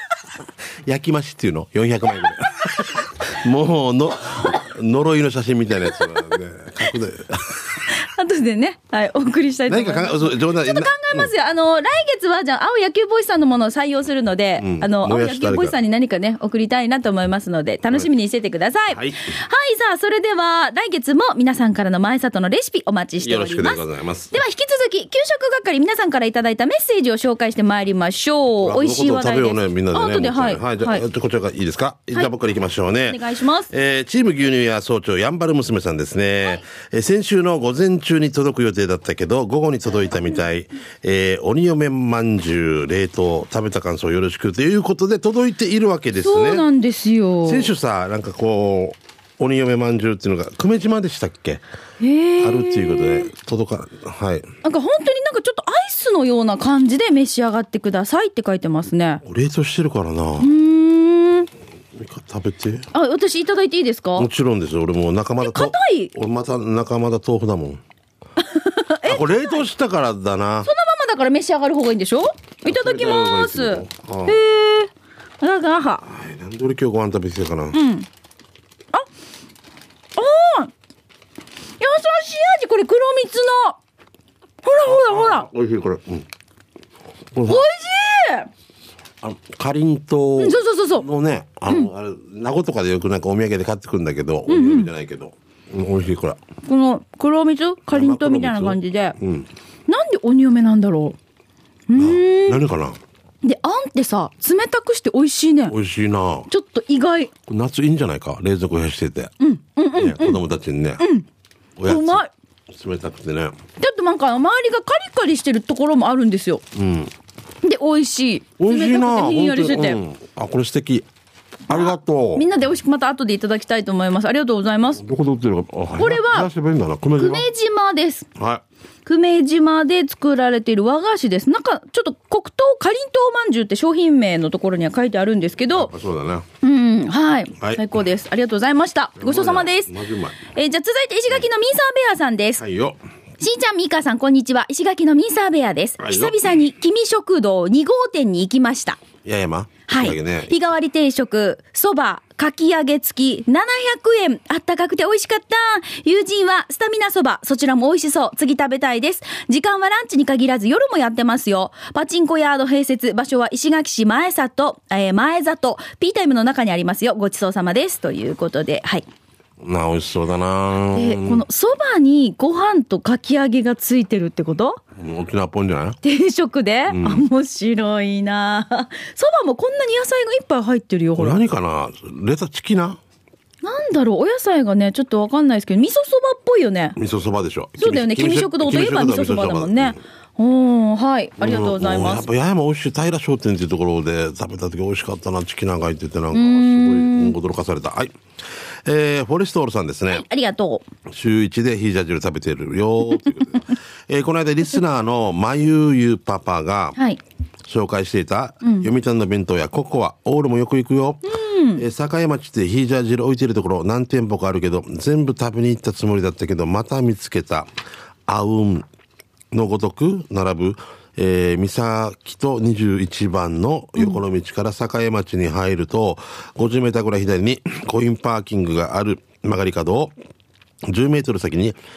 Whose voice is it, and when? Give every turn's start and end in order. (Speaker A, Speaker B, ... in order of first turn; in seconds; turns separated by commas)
Speaker A: 0.8-7.9, Speaker B: 7.8-31.0, Speaker A: 9.7-11.3, Speaker A: 14.6-15.8, Speaker A: 18.9-19.2, Speaker A: 23.2-24.3, Speaker A: 28.6-46.6, Speaker B: 33.1-33.7, Speaker B: 46.2-47.7, Speaker A: 47.4-51.6, Speaker B: 52.0-53.3, Speaker A: 52.4-54.5, Speaker B: 54.6-59.2, Speaker A: 59.2-60.5, Speaker B: 60.4-61.5, Speaker A: 61.9-62.9, Speaker B: 62.9-64.3, Speaker A: 64.2-67.8, Speaker B: 65.4-66.1, Speaker B: 68.4-69.5, Speaker A: 69.0-70.7, Speaker B: 70.6-76.0, Speaker A: 72.6-74.4, Speaker A: 76.0-77.8, Speaker B: 77.7-78.1, Speaker B: 80.2-80.7, Speaker B: 81.8-83.8, Speaker B: 84.6-85.5, Speaker A: 84.8-86.2, Speaker A: 87.3-87.7, Speaker B: 87.4-88.5, Speaker A: 89.2-96.4, Speaker B: 90.4-91.0, Speaker B: 94.5-94.9, Speaker B: 96.7-99.2, Speaker A: 97.9-99.5, Speaker B: 99.9-101.2, Speaker B: 101.9-102.6, Speaker A: 101.9-103.0, Speaker B: 103.4-105.8, Speaker A: 105.7-106.5, Speaker B: 106.5-107.3, Speaker A: 107.5-109.3, Speaker B: 109.4-110.4, Speaker A: 109.9-111.0, Speaker B: 111.0-111.2, Speaker A: 111.8-113.5, Speaker B: 111.9-112.3, Speaker B: 113.8-116.6, Speaker A: 116.7-117.1, Speaker B: 117.6-120.0, Speaker A: 118.6-121.0, Speaker A: 121.7-122.4, Speaker B: 121.7-125.0, Speaker A: 125.0-127.5, Speaker B: 126.0-126.5, Speaker B: 127.2-128.3, Speaker A: 128.4-128.6, Speaker B: 129.1-135.9, Speaker A: 135.7-136.4, Speaker B: 136.6-139.9, Speaker A: 139.2-140.4, Speaker B: 140.4-142.6, Speaker A: 142.6-143.0, Speaker B: 143.4-149.0, Speaker A: 146.0-146.4, Speaker A: 149.2-150.5, Speaker B: 149.9-169.1, Speaker A: 169.6-171.4, Speaker B: 170.9-174.8, Speaker A: 175.0-176.0, Speaker B: 176.0-181.4, Speaker A: 176.9-177.3, Speaker A: 181.2-183.0, Speaker B: 183.6-187.0, Speaker A: 187.0-190.0, Speaker B: 187.8-192.2, Speaker A: 191.4-198.1, Speaker B: 196.3-197.3, Speaker A: 198.8-200.2, Speaker B: 200.1-200.8, Speaker A: 201.1-207.0, Speaker A: 207.7-217.7, Speaker B: 208.6-208.9, Speaker B: 211.2-211.8, Speaker A: 218.3-218.8, Speaker A: 219.5-230.1, Speaker A: 230.9-231.8